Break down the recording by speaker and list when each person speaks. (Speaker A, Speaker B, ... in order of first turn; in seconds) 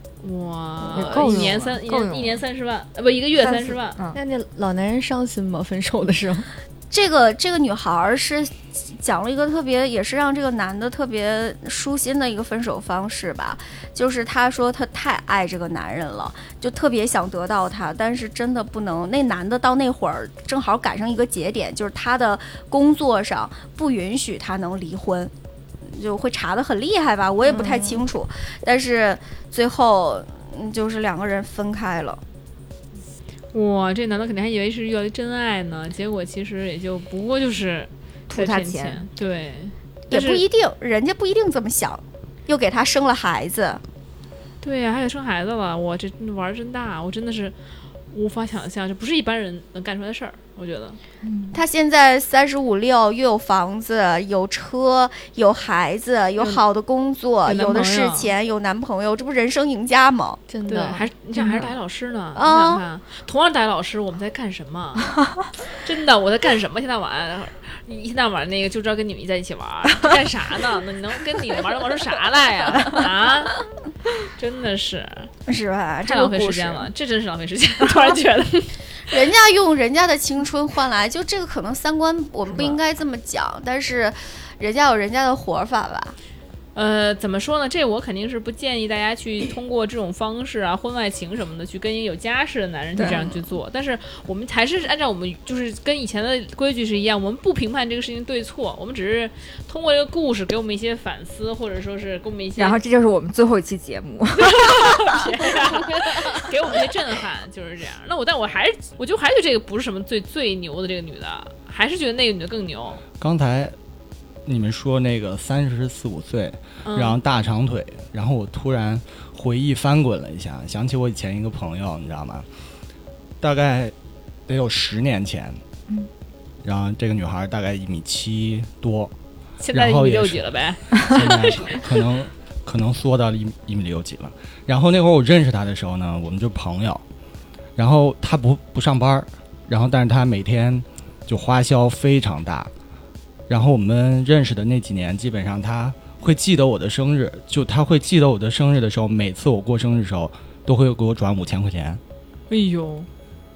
Speaker A: 0.2-4.0, 33.5-40.4, 44.6-47.5, 48.1-51.0, 57.5-58.3, 60.7-65.2, 65.7-73.6, 74.2-75.3, 76.0-78.8, 86.8-102.8, 104.4-113.0, 116.8-117.2, 129.6-131.8, 152.5-153.1
Speaker B: 0.9-2.4, 3.4-4.2, 38.3-39.0, 51.2-51.6, 61.4-61.7, 93.0-93.3, 102.6-105.5
Speaker C: 4.1-6.5, 27.5-27.9, 60.5-61.1
Speaker D: 6.9-25.3, 25.9-32.2, 40.1-43.8, 51.5-60.4, 62.4-62.8, 75.5-76.9, 79.1-86.2
Speaker E: 113.2-113.8, 114.5-122.5, 123.4-123.9, 124.5-125.6, 126.6-129.1, 129.7-137.0, 137.8-142.7, 143.5-152.0